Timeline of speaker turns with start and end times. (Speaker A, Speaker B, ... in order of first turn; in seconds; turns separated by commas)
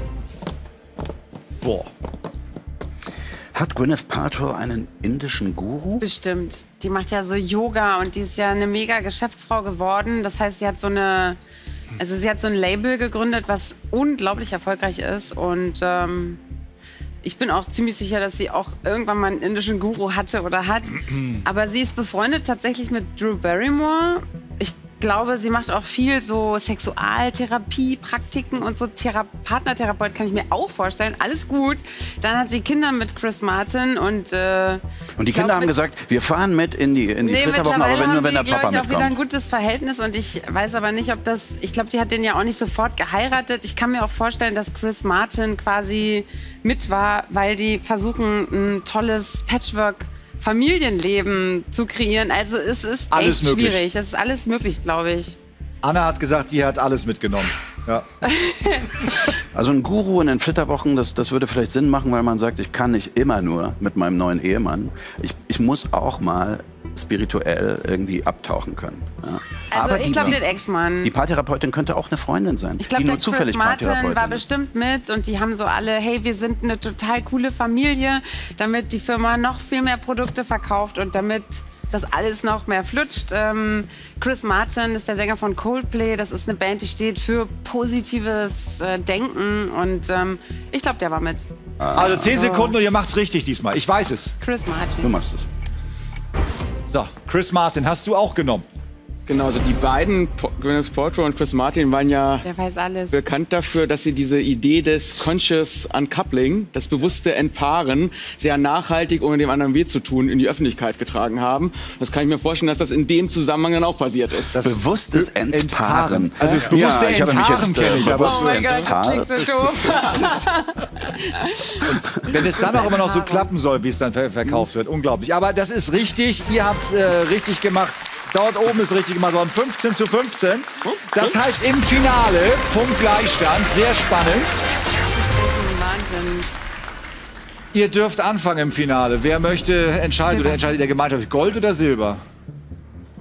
Speaker A: 1.6-1.9, Speaker B: 3.5-6.0, Speaker C: 6.0-11.4, Speaker C: 12.0-16.4, Speaker C: 17.2-35.7, Speaker B: 35.2-39.2, Speaker C: 37.2-55.4, Speaker A: 53.1-53.8, Speaker A: 55.8-58.1, Speaker C: 58.3-58.9, Speaker B: 59.4-70.4, Speaker C: 69.7-71.1, Speaker B: 71.0-74.4, Speaker C: 72.8-91.5, Speaker B: 91.8-92.3, Speaker A: 91.9-94.4, Speaker C: 92.0-92.8, Speaker C: 94.4-95.1, Speaker B: 95.0-95.5, Speaker A: 96.9-98.7, Speaker D: 99.3-102.5, Speaker C: 102.4-103.2, Speaker D: 103.1-114.6, Speaker A: 114.5-118.8, Speaker B: 114.6-119.7, Speaker C: 118.2-123.5, Speaker A: 122.2-134.6, Speaker D: 130.9-131.2, Speaker C: 135.0-136.5, Speaker A: 137.7-142.2